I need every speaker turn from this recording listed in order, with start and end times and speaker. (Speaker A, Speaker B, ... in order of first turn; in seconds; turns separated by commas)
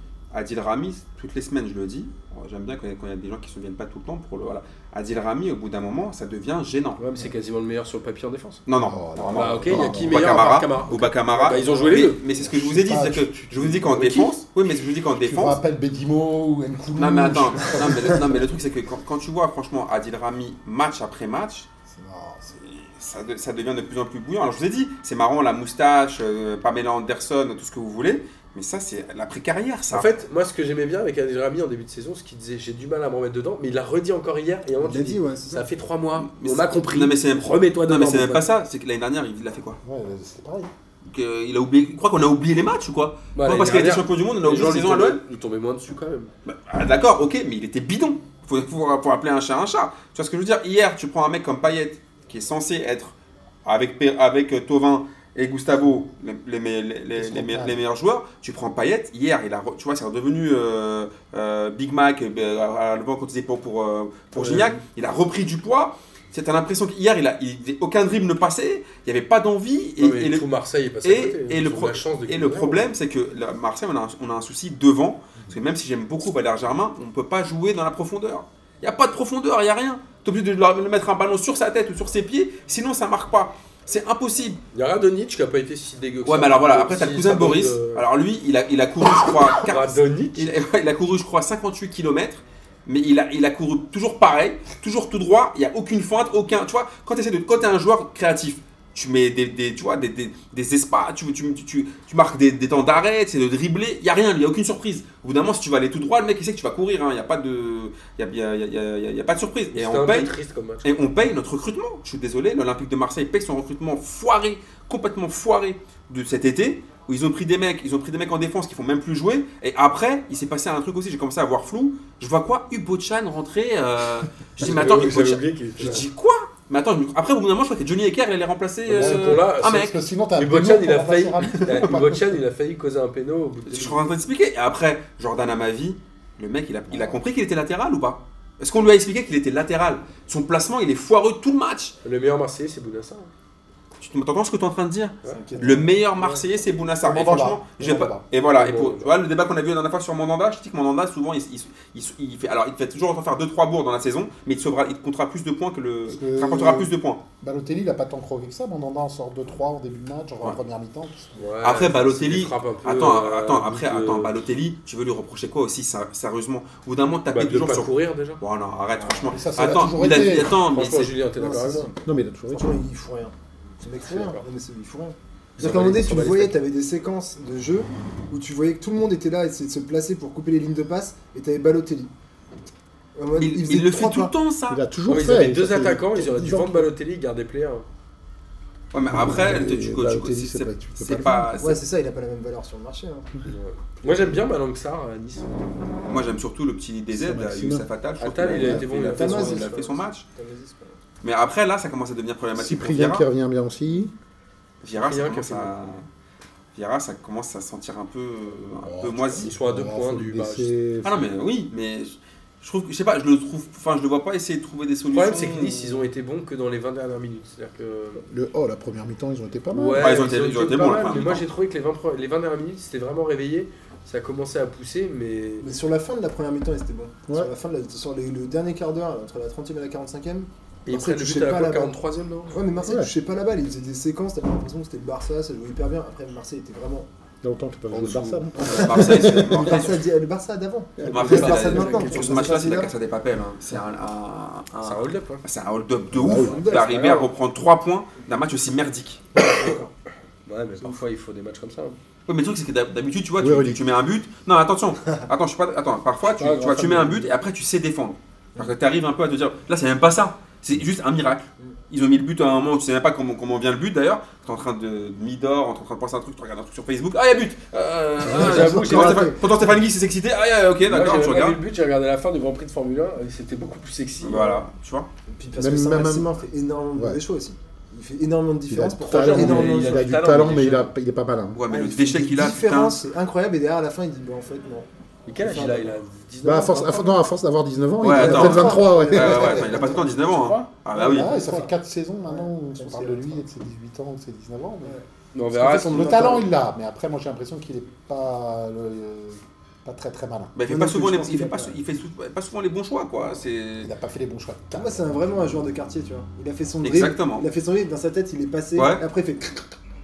Speaker A: 0.3-7.0, Speaker B: 7.0-8.6, Speaker A: 8.7-15.6, Speaker C: 8.8-10.5, Speaker B: 9.3-12.2, Speaker C: 12.4-14.4, Speaker C: 15.2-18.4, Speaker A: 17.0-21.7, Speaker C: 21.9-22.6, Speaker A: 22.6-30.1, Speaker B: 29.9-38.5, Speaker D: 34.8-35.7, Speaker A: 36.2-39.8, Speaker C: 39.8-40.7, Speaker A: 41.1-45.2, Speaker B: 43.4-46.3, Speaker A: 46.5-70.5, Speaker C: 57.2-57.8, Speaker B: 64.3-64.8, Speaker B: 70.0-72.9, Speaker A: 71.0-84.6, Speaker B: 84.7-88.0, Speaker A: 86.3-110.3, Speaker B: 89.6-90.5, Speaker B: 109.7-111.0, Speaker A: 110.8-130.0, Speaker B: 124.6-126.0, Speaker B: 128.9-134.0, Speaker C: 128.9-132.3, Speaker A: 131.5-132.1, Speaker A: 133.7-142.0, Speaker C: 136.9-137.2, Speaker B: 142.0-143.3, Speaker A: 144.0-157.2, Speaker D: 145.3-145.9, Speaker C: 147.0-148.2, Speaker B: 148.5-149.1, Speaker C: 156.1-161.5, Speaker B: 161.4-164.4, Speaker A: 161.6-171.2, Speaker B: 167.3-168.4, Speaker D: 169.0-169.3, Speaker C: 169.3-170.5, Speaker B: 170.5-171.9, Speaker D: 171.4-182.1, Speaker C: 172.1-172.7, Speaker B: 174.1-174.4, Speaker B: 175.6-176.6, Speaker D: 183.1-184.3, Speaker A: 183.4-184.8, Speaker C: 184.7-186.7, Speaker B: 185.1-187.9, Speaker D: 186.3-186.9, Speaker A: 188.9-191.8, Speaker C: 189.1-191.5, Speaker D: 191.6-193.4, Speaker B: 193.4-195.8, Speaker D: 194.0-194.4, Speaker A: 196.1-200.3, Speaker C: 197.1-197.9, Speaker B: 198.2-199.8, Speaker C: 198.5-198.8, Speaker D: 199.1-201.0, Speaker A: 201.2-203.3, Speaker C: 202.6-204.1, Speaker B: 204.8-205.7, Speaker A: 204.8-206.1, Speaker A: 206.8-209.5, Speaker C: 208.8-211.3, Speaker B: 209.4-210.7, Speaker A: 211.0-216.0, Speaker B: 215.1-218.3, Speaker C: 218.2-220.3, Speaker B: 219.7-225.7, Speaker A: 220.0-221.5, Speaker D: 225.6-232.0, Speaker B: 230.9-232.6, Speaker D: 232.5-237.1, Speaker C: 232.8-233.1, Speaker C: 237.4-239.8, Speaker B: 237.9-238.4, Speaker A: 238.6-240.1, Speaker D: 238.6-242.9, Speaker C: 241.0-241.9, Speaker A: 241.1-249.3, Speaker B: 241.3-242.3, Speaker B: 244.8-245.4, Speaker C: 246.1-246.7, Speaker B: 246.4-247.3, Speaker D: 246.4-246.9, Speaker D: 249.4-249.9, Speaker B: 250.5-252.0, Speaker A: 252.3-271.6, Speaker C: 253.4-253.8, Speaker B: 256.4-257.3, Speaker B: 268.2-269.4, Speaker C: 268.3-269.6, Speaker B: 270.9-274.6, Speaker A: 274.2-275.1, Speaker D: 275.3-280.1, Speaker C: 275.6-276.3, Speaker C: 277.0-277.2, Speaker C: 278.7-281.6, Speaker B: 279.0-280.9, Speaker A: 279.4-279.7, Speaker A: 281.5-283.0, Speaker D: 281.7-285.9, Speaker B: 285.3-287.2, Speaker C: 286.4-290.0, Speaker A: 288.0-291.4, Speaker D: 288.1-290.2, Speaker B: 290.1-290.7, Speaker D: 290.9-291.7, Speaker C: 291.0-295.0, Speaker D: 292.3-293.4, Speaker B: 295.3-296.4, Speaker C: 295.5-300.6, Speaker A: 300.6-303.9, Speaker D: 300.7-301.8, Speaker C: 303.8-305.5, Speaker D: 304.7-309.8, Speaker A: 306.8-307.5, Speaker A: 308.8-309.0